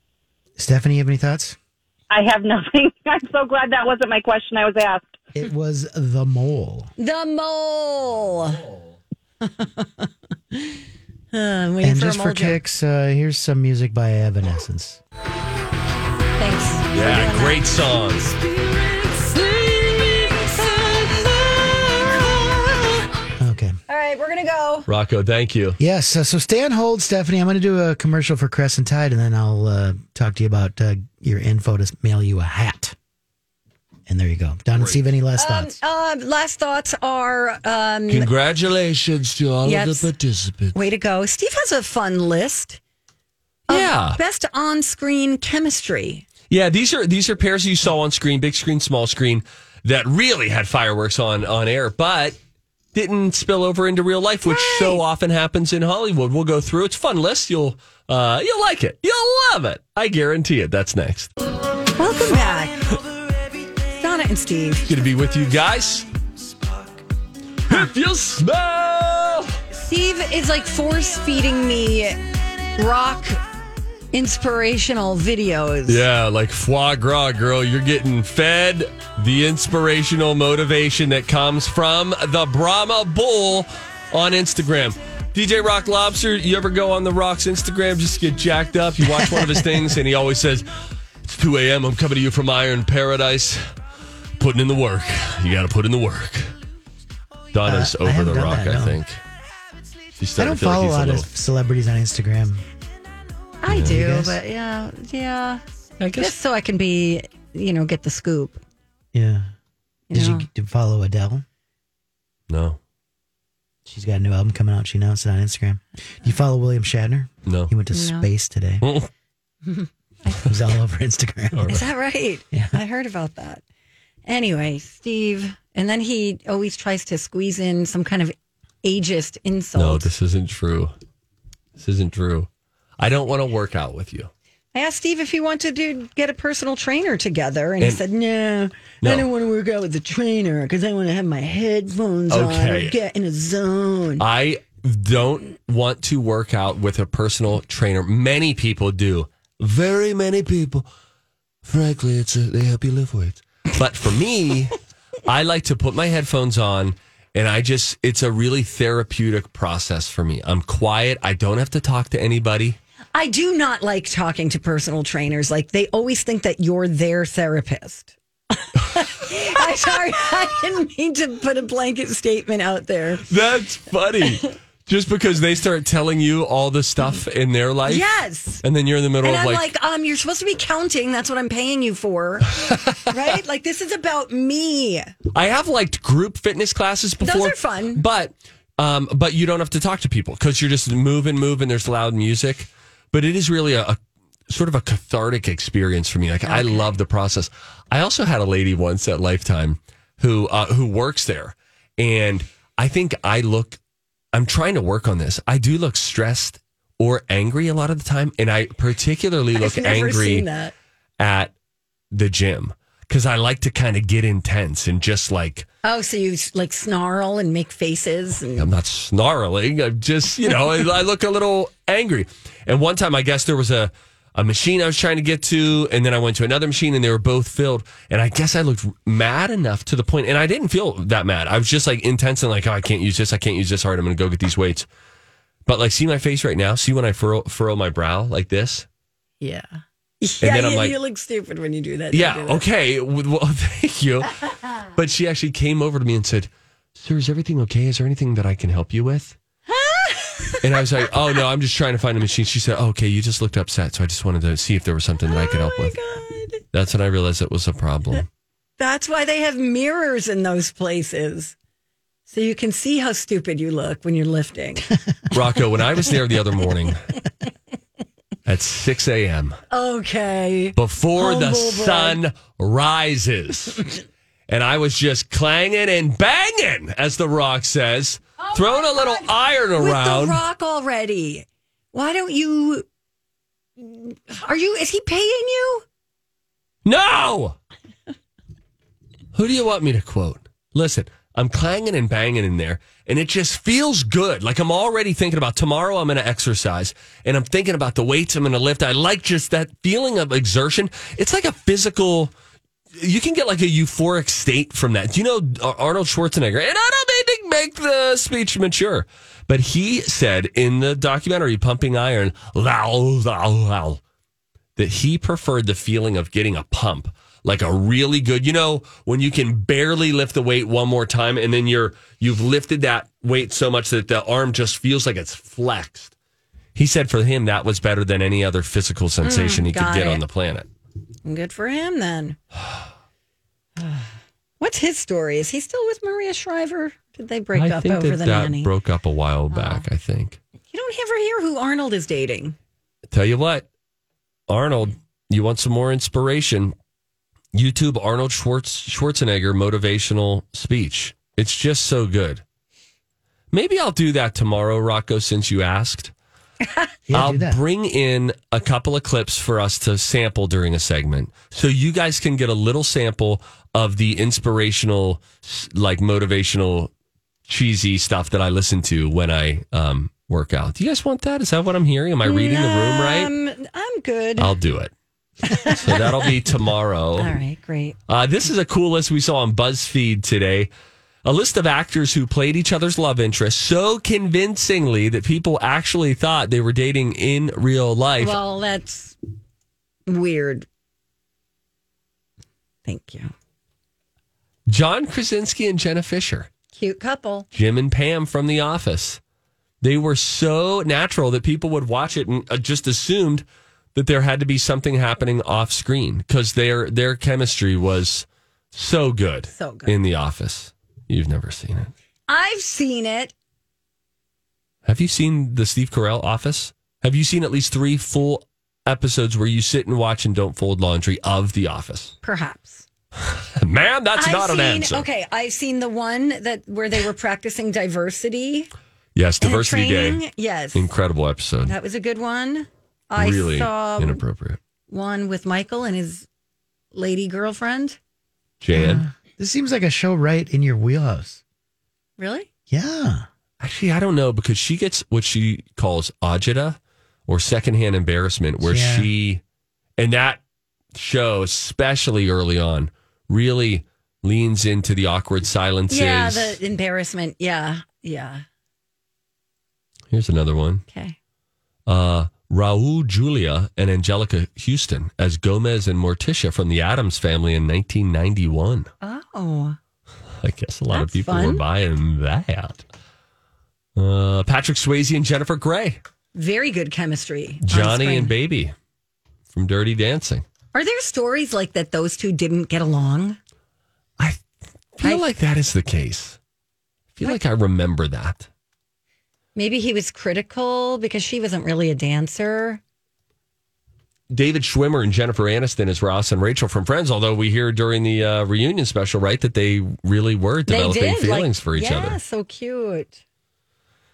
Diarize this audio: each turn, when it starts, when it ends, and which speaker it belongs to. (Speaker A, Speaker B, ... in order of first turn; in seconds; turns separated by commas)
Speaker A: 0.6-1.6, Speaker B: 2.1-5.0, Speaker A: 5.3-6.9, Speaker C: 7.0-8.6, Speaker D: 8.6-8.9, Speaker C: 9.4-12.6, Speaker A: 11.8-15.0, Speaker C: 16.4-17.8, Speaker D: 16.9-18.4, Speaker C: 18.3-22.9, Speaker A: 23.4-23.8, Speaker C: 23.9-24.9, Speaker D: 24.9-25.8, Speaker A: 25.8-33.0, Speaker A: 34.1-35.8, Speaker D: 34.8-35.0, Speaker C: 35.4-38.3, Speaker D: 38.1-40.8, Speaker C: 39.6-40.1, Speaker C: 40.7-42.8, Speaker C: 43.7-46.3, Speaker D: 43.7-44.2, Speaker D: 46.5-52.4, Speaker D: 52.9-61.3, Speaker C: 54.4-55.0, Speaker C: 62.0-62.9, Speaker C: 63.9-64.9, Speaker D: 64.9-66.1, Speaker D: 67.7-69.6, Speaker C: 69.7-72.2, Speaker C: 72.7-73.4, Speaker C: 74.1-76.0, Speaker D: 75.9-90.7, Speaker A: 89.4-89.8, Speaker D: 91.2-93.6, Speaker D: 94.4-96.5, Speaker D: 97.5-99.2, Speaker A: 97.6-99.0, Speaker D: 100.2-101.3, Speaker A: 100.4-102.6, Speaker C: 103.6-105.6, Speaker A: 103.7-104.4, Speaker D: 103.7-104.0, Speaker D: 106.0-106.3, Speaker C: 106.1-108.6, Speaker A: 109.1-109.5, Speaker C: 110.1-110.5, Speaker A: 110.1-111.5, Speaker D: 112.5-112.8, Speaker A: 113.9-118.8, Speaker D: 117.5-117.7, Speaker C: 117.9-118.3, Speaker D: 118.8-119.1, Speaker C: 119.7-120.5, Speaker A: 120.4-121.7, Speaker D: 121.5-121.9, Speaker C: 121.7-123.6, Speaker C: 124.3-130.1, Speaker D: 129.8-130.9, Speaker D: 131.8-132.5, Speaker D: 133.0-134.3, Speaker C: 134.7-144.2, Speaker D: 139.0-139.3, Speaker D: 142.3-143.0, Speaker D: 144.2-150.9, Speaker D: 151.7-154.8, Speaker D: 155.3-162.8, Speaker C: 163.2-173.3, Speaker D: 173.3-178.1, Speaker C: 177.9-178.6, Speaker D: 178.6-179.7, Speaker C: 179.2-185.1, Speaker D: 182.6-183.1, Speaker D: 185.3-194.0, Speaker C: 187.2-188.0, Speaker D: 194.5-203.8, Speaker C: 196.5-196.9, Speaker D: 204.3-210.5, Speaker C: 209.6-210.7, Speaker D: 211.2-211.5, Speaker D: 212.1-215.7, Speaker C: 215.8-218.7, Speaker D: 218.6-234.9, Speaker D: 235.7-238.9, Speaker C: 239.4-242.6, Speaker D: 240.4-241.0, Speaker D: 242.1-244.4, Speaker D: 244.9-249.4, Speaker C: 249.7-250.7, Speaker D: 250.6-255.9, Speaker C: 255.3-256.6, Speaker D: 256.7-258.3, Speaker C: 258.8-261.6, Speaker C: 262.3-264.9, Speaker D: 265.3-267.0, Speaker D: 268.5-269.6, Speaker C: 269.7-272.2, Speaker D: 270.8-273.8, Speaker D: 274.5-280.4, Speaker C: 278.4-282.9, Speaker C: 283.8-285.9, Speaker D: 286.9-287.6, Speaker D: 289.3-302.3, Speaker D: 303.0-314.0, Speaker D: 314.8-326.1, Speaker D: 326.8-330.7, Speaker C: 329.2-330.2, Speaker C: 331.2-332.4, Speaker C: 333.8-338.7, Speaker D: 337.5-340.4, Speaker C: 339.5-339.9, Speaker C: 340.7-342.6, Speaker D: 343.1-343.7, Speaker D: 344.5-346.7, Speaker D: 347.5-352.4, Speaker D: 353.5-356.1, Speaker A: 357.1-357.6, Speaker D: 357.1-366.9, Speaker D: 367.5-373.3, Speaker C: 372.2-374.5, Speaker D: 374.4-374.9, Speaker C: 375.5-375.9, Speaker D: 375.6-377.4, Speaker C: 377.2-378.0, Speaker D: 378.1-380.7, Speaker D: 381.2-388.4, Speaker C: 388.2-389.2, Speaker C: 390.1-390.7, Speaker C: 392.9-393.3, Speaker D: 394.7-396.5, Speaker C: 396.8-397.5, Speaker D: 397.5-399.2, Speaker D: 399.8-403.4, Speaker D: 403.9-411.9, Speaker C: 409.5-409.9, Speaker C: 412.3-413.3, Speaker D: 414.9-422.1, Speaker C: 422.2-422.9, Speaker D: 423.6-425.1, Speaker C: 424.2-428.7, Speaker D: 429.1-430.2, Speaker C: 429.4-430.9, Speaker D: 430.7-431.8, Speaker C: 431.7-434.2, Speaker D: 433.2-434.6, Speaker C: 434.9-436.3, Speaker C: 436.9-438.0, Speaker D: 438.6-439.1, Speaker A: 438.7-441.4, Speaker C: 442.2-442.5, Speaker A: 442.7-443.2, Speaker D: 443.6-449.4, Speaker A: 448.6-449.1, Speaker D: 450.0-450.4, Speaker D: 450.9-456.6, Speaker C: 455.9-458.4, Speaker D: 460.1-460.8, Speaker C: 460.9-461.2, Speaker D: 461.9-468.9, Speaker C: 469.0-469.8, Speaker D: 470.4-472.8, Speaker C: 470.9-471.6, Speaker D: 474.0-476.0, Speaker C: 476.4-478.3, Speaker D: 477.6-478.7, Speaker D: 479.5-480.4, Speaker C: 480.7-483.4, Speaker D: 485.0-486.4, Speaker D: 487.1-488.5, Speaker C: 489.6-492.8, Speaker D: 494.3-502.2, Speaker C: 500.7-503.2